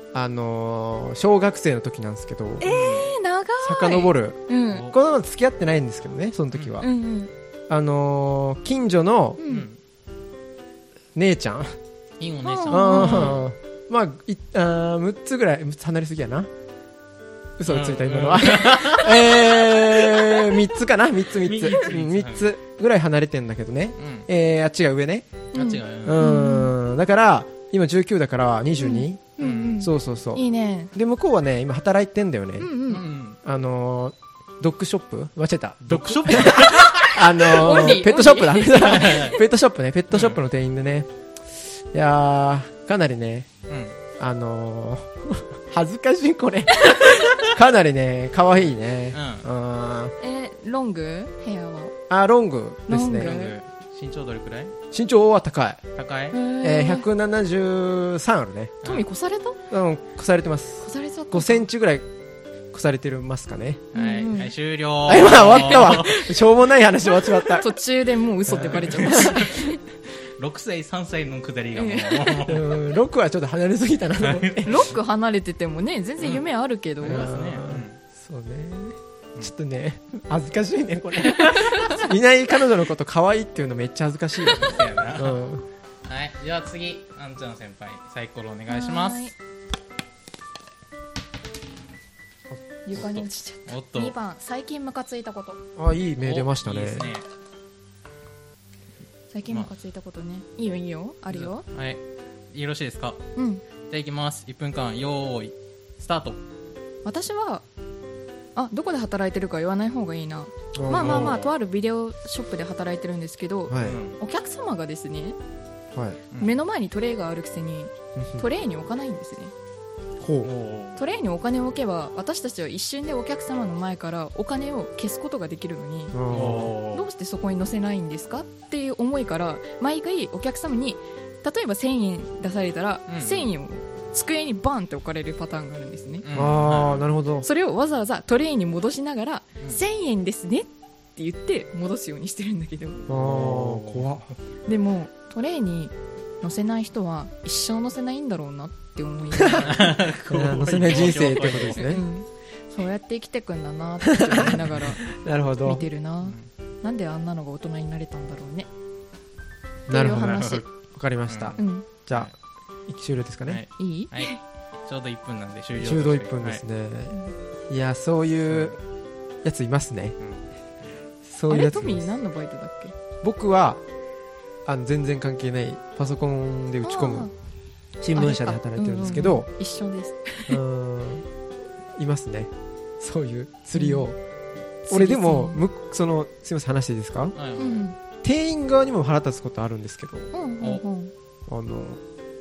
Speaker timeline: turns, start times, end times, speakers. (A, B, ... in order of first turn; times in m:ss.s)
0:00.1-0:02.7 A
0:02.6-0:04.9 B
0:02.7-0:03.1 C
0:03.6-0:06.9 A
0:06.5-0:06.8 C
0:06.8-0:07.3 B
0:07.7-0:09.4 A
0:09.4-0:09.7 B
0:09.5-0:09.8 C
0:11.2-0:11.8 A
0:12.2-0:13.4 C
0:12.4-0:13.4 B
0:12.7-0:16.5 A
0:17.6-0:25.5 A
0:17.7-0:20.6 C
0:21.4-0:22.5 C
0:24.0-0:24.3 C
0:25.5-0:26.8 B
0:25.5-0:26.2 C
0:26.0-0:32.7 A
0:28.8-0:30.9 B
0:29.4-0:29.9 C
0:32.6-0:33.0 B
0:32.9-0:33.4 C
0:33.4-0:43.5 A
0:35.8-0:38.0 C
0:37.4-0:39.4 B
0:38.8-0:39.4 C
0:40.1-0:40.4 C
0:43.7-0:44.0 C
0:44.2-0:50.1 A
0:49.1-0:49.5 C
0:50.2-0:51.9 B
0:52.1-0:53.4 A
0:52.9-0:53.6 B
0:53.1-0:54.8 C
0:54.9-0:55.8 A
0:56.0-0:56.4 C
0:56.3-0:57.1 B
0:56.6-0:58.8 A
0:58.8-0:59.6 B
0:59.7-1:02.1 A
1:00.8-1:01.7 B
1:02.7-1:03.9 A
1:03.9-1:06.3 C
1:03.9-1:04.5 B
1:05.1-1:07.7 A
1:05.2-1:06.3 B
1:07.2-1:09.8 B
1:08.5-1:09.4 A
1:08.7-1:09.7 C
1:10.3-1:12.7 C
1:11.7-1:12.4 B
1:12.5-1:14.8 A
1:14.2-1:14.8 C
1:14.6-1:17.3 B
1:17.0-1:18.0 C
1:17.0-1:25.6 A
1:21.4-1:22.0 B
1:24.5-1:25.4 C
1:26.1-1:29.3 C
1:28.7-1:29.3 B
1:32.9-1:35.6 B
1:32.9-1:34.2 C
1:35.8-1:37.1 A
1:36.2-1:37.3 C
1:39.3-1:41.6 B
1:41.3-1:43.2 C
1:43.4-1:43.6 B
1:43.9-1:46.4 C
1:47.0-1:47.6 B
1:48.6-1:55.4 B
1:50.8-1:51.4 A
1:50.9-1:51.5 C
1:53.7-1:54.0 A
1:53.8-1:54.2 C
1:55.9-1:56.2 A
1:56.4-1:59.5 B
1:58.2-1:58.4 A
2:00.2-2:00.5 A
2:00.4-2:01.0 C
2:01.0-2:06.2 B
2:06.1-2:06.8 A
2:06.3-2:07.1 C
2:06.9-2:16.3 B
2:13.1-2:13.5 C
2:16.2-2:17.1 C
2:16.3-2:17.5 A
2:17.4-2:23.1 B
2:23.1-2:24.2 C
2:23.1-2:24.3 A
2:24.7-2:29.9 B
2:29.4-2:29.7 A
2:29.6-2:32.0 C
2:30.3-2:32.0 A
2:31.8-2:35.1 B
2:34.1-2:35.9 A
2:35.6-2:38.7 B
2:36.2-2:36.5 C
2:39.9-2:42.3 A
2:39.9-2:40.7 B
2:40.2-2:40.6 C
2:41.3-2:42.3 C
2:41.6-2:41.9 B
2:42.9-2:43.6 A
2:43.5-2:46.6 C
2:43.8-2:44.4 B
2:45.8-2:47.2 A
2:47.7-2:48.8 A
2:49.4-2:50.2 A
2:51.2-2:52.2 A
2:51.5-2:53.0 B
2:53.2-2:53.8 A
2:54.6-2:57.3 A
2:56.8-2:57.3 B
2:58.0-2:59.5 A
2:58.1-3:00.6 B
3:00.5-3:01.3 A
3:02.0-3:04.2 A
3:03.8-3:04.1 B
3:04.9-3:05.6 B
3:04.9-3:07.4 A
3:07.4-3:07.9 C
3:07.6-3:08.0 B
3:08.2-3:10.3 A
3:10.3-3:11.1 B
3:11.5-3:12.0 A